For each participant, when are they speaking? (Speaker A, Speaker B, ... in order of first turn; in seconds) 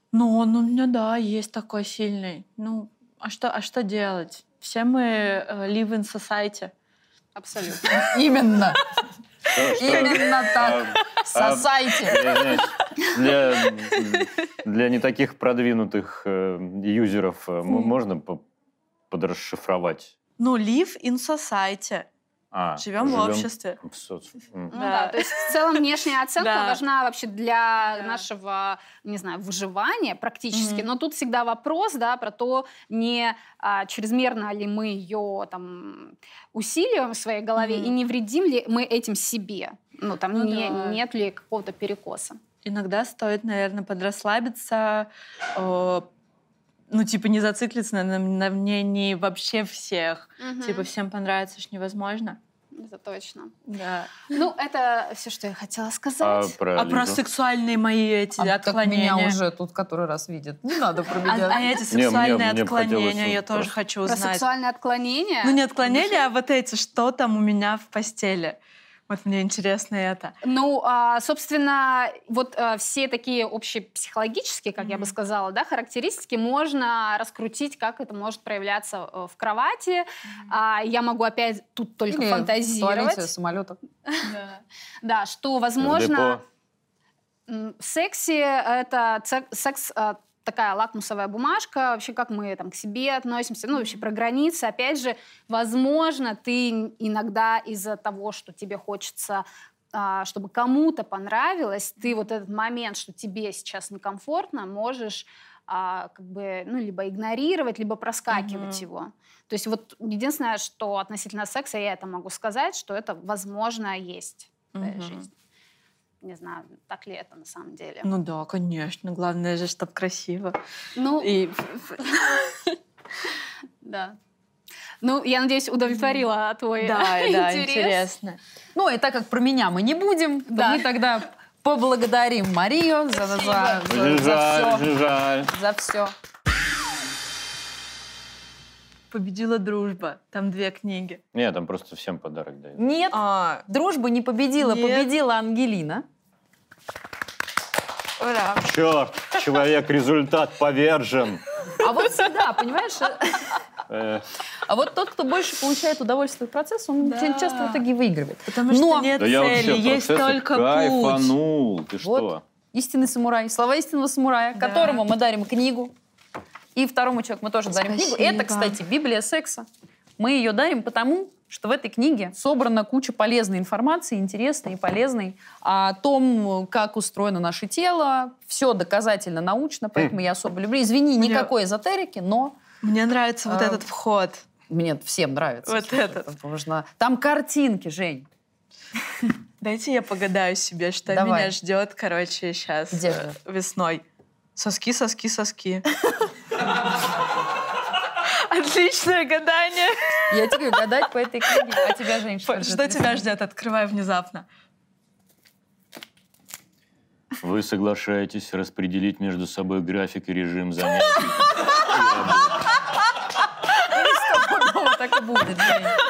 Speaker A: 0.1-6.7, 20.4-22.1, 22.8-23.8, 24.7-25.9, 26.4-26.8, 27.9-28.2, 30.5-30.9, 37.6-38.0, 40.3-41.0, 42.6-46.1, 46.9-52.4, 53.7-54.3, 56.8-59.4, 61.2-64.4, 65.4-70.3, 74.8-75.1, 108.3-108.8, 114.7-115.2, 118.0-120.6, 121.2-122.4, 125.9-126.2, 126.8-128.4, 133.1-133.7, 139.1-141.2, 143.1-143.6, 144.6-145.1, 148.2-148.7, 157.0-157.8, 158.5-161.3, 164.6-165.0, 167.7-168.8, 181.2-181.5, 182.8-184.4, 185.7-186.2, 189.6-194.0, 194.6-195.9, 198.2-200.4, 202.4-204.4, 211.6-211.9
Speaker B: 7.3-8.1, 24.7-42.4, 50.4-50.9, 52.7-53.5, 54.3-56.5, 64.0-66.3, 70.4-83.3, 84.1-86.4, 87.5-115.3, 116.2-118.1, 121.0-121.4, 122.0-122.5, 123.8-124.2, 125.0-128.1, 130.5-130.8
Speaker C: 8.0-8.8, 9.6-12.3, 58.4-61.7, 82.1-83.8, 128.7-134.9, 135.5-136.1, 142.8-146.0, 151.8-153.6, 154.7-159.1, 162.0-165.9, 166.7-169.7, 170.2-182.6, 183.5-183.8, 184.7-188.2, 191.1-191.5, 192.9-193.3, 200.3-203.3, 213.8-216.0
Speaker D: 9.5-18.4, 19.1-20.1, 22.5-24.7, 56.2-57.2, 61.9-63.7, 85.8-86.4, 133.8-135.5, 141.3-142.8, 148.6-151.4, 153.9-154.2, 159.2-162.4, 207.4-212.7